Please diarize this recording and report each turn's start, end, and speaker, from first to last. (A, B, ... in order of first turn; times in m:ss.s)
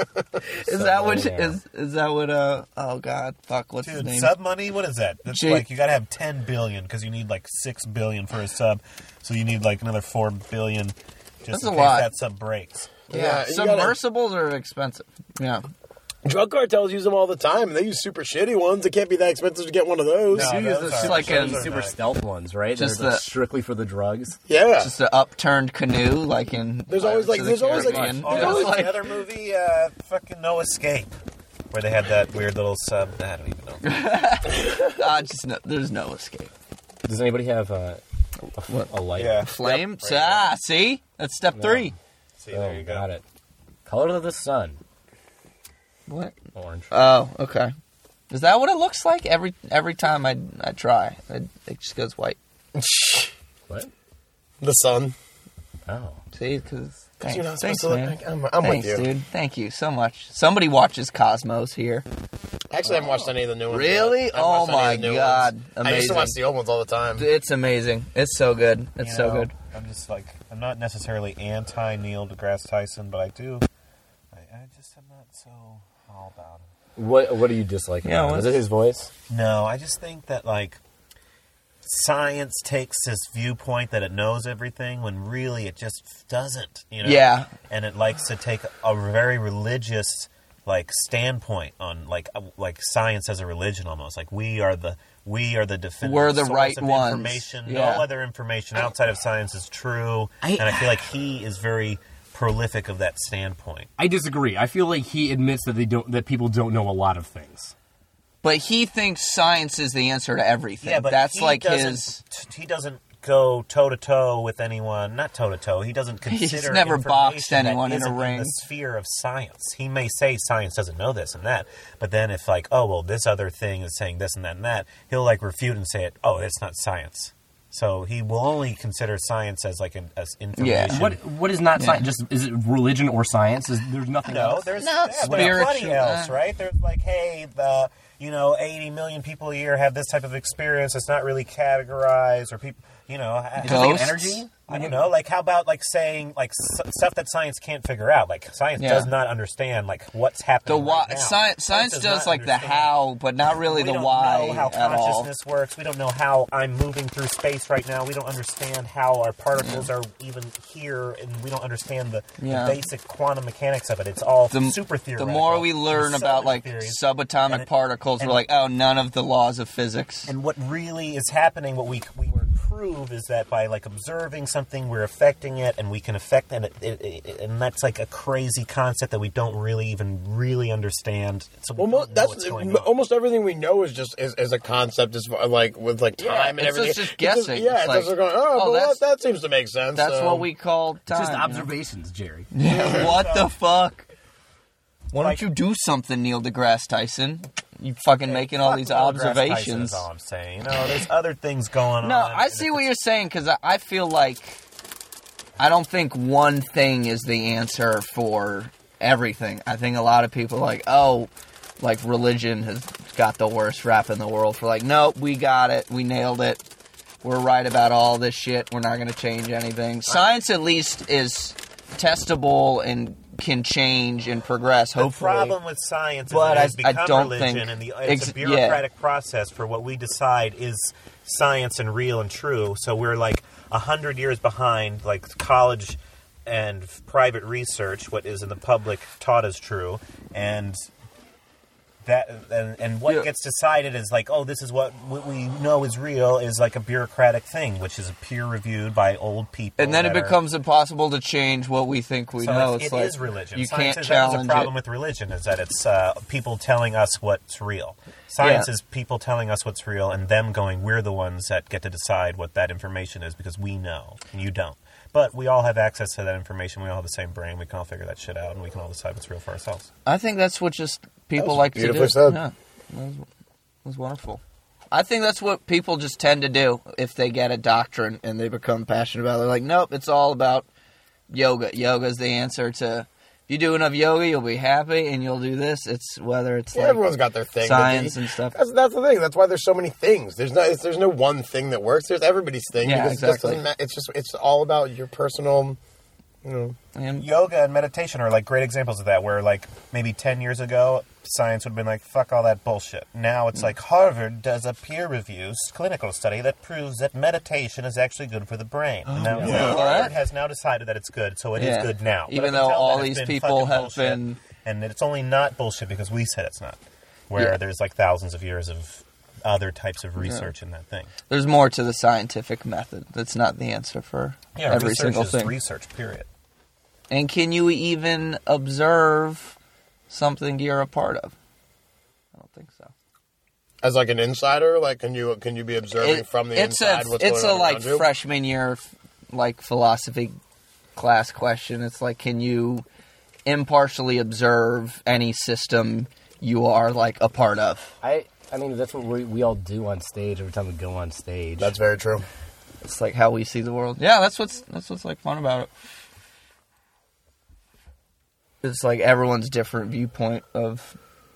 0:00.6-0:01.6 A
0:00.6-0:04.3 B
0:03.8-0:12.9 C
0:05.3-0:05.6 B
0:11.5-0:12.1 B
0:13.1-0:14.0 D
0:13.1-0:15.6 B
0:16.2-0:20.6 D
0:20.3-0:22.0 C
0:20.3-0:24.4 A
0:20.9-0:21.7 B
0:22.7-0:23.2 B
0:24.5-0:24.9 D
0:24.8-0:29.0 B
0:26.9-0:28.7 D
0:27.4-0:28.8 A
0:28.2-0:31.1 C
0:31.7-0:33.8 C
0:33.8-0:36.5 B
0:37.0-0:38.0 A
0:38.6-0:39.4 A
0:38.7-0:38.9 B
0:39.2-0:40.5 C
0:39.4-0:42.0 B
0:41.6-0:41.9 A
0:42.4-0:43.1 C
0:42.5-0:43.2 A
0:43.9-0:44.8 A
0:46.1-0:46.4 B
0:46.5-0:47.1 A
0:46.9-0:47.7 B
0:48.3-0:52.4 B
0:52.7-0:53.3 D
0:54.6-0:55.1 D
0:55.9-0:56.2 A
0:56.3-1:02.0 B
0:57.2-0:59.0 D
1:02.7-1:07.3 D
1:02.9-1:03.3 A
1:03.7-1:06.4 B
1:07.2-1:09.5 B
1:09.0-1:13.7 C
1:14.3-1:16.7 C
1:17.0-1:19.1 A
1:18.0-1:18.6 B
1:19.3-1:20.8 C
1:21.8-1:43.9 C
1:27.0-1:27.5 B
1:36.0-1:38.0 B
1:44.0-1:47.7 A
1:48.4-1:52.2 B
1:50.8-2:11.2 C
1:56.3-1:58.6 B
2:10.6-2:11.0 B
2:10.9-2:15.7 A
2:11.8-2:12.0 B
2:14.2-2:32.9 C
2:14.8-2:16.4 B
2:23.6-2:25.1 A
2:23.6-2:24.4 B
2:28.8-2:29.1 B
2:30.7-2:35.3 B
2:33.5-2:47.7 C
2:39.6-2:39.9 B
2:42.4-2:42.8 B
2:44.5-2:50.3 B
2:50.3-3:02.9 C
3:01.8-3:10.5 D
3:06.2-3:09.0 B
3:10.0-3:11.7 B
3:11.1-3:12.5 A
3:12.5-3:14.1 B
3:12.7-3:13.6 C
3:15.1-3:20.1 B
3:15.2-3:15.4 C
3:18.3-3:22.9 C
3:22.0-3:24.6 B
3:25.6-3:36.6 B
3:37.2-3:45.6 B
3:45.0-4:00.8 C
3:46.3-3:48.8 B
4:02.0-4:10.4 C
4:09.8-4:14.7 B
4:12.4-4:29.9 C
4:18.4-4:18.7 B
4:30.1-4:33.3 B
4:31.4-4:32.4 D
4:33.8-4:40.7 B
4:41.3-4:48.6 B
4:46.7-4:55.8 D
4:52.8-4:53.6 B
4:56.4-4:56.8 D
4:57.0-4:57.3 B
4:57.2-5:16.8 C
5:09.1-5:10.1 B
5:09.3-5:09.8 A
5:09.4-5:10.0 D
5:11.6-5:14.4 B
5:17.3-5:21.1 C
5:20.2-5:20.5 B
5:21.3-5:25.5 B
5:24.6-5:26.3 C
5:27.1-5:29.6 B
5:30.1-5:31.4 B
5:32.3-5:32.9 B
5:33.8-5:38.1 D
5:36.0-5:40.4 B
5:41.0-5:42.8 B
5:43.4-5:47.9 B
5:48.0-5:51.7 A
5:51.6-5:52.3 D
5:52.8-5:55.7 B
5:58.6-6:01.0 B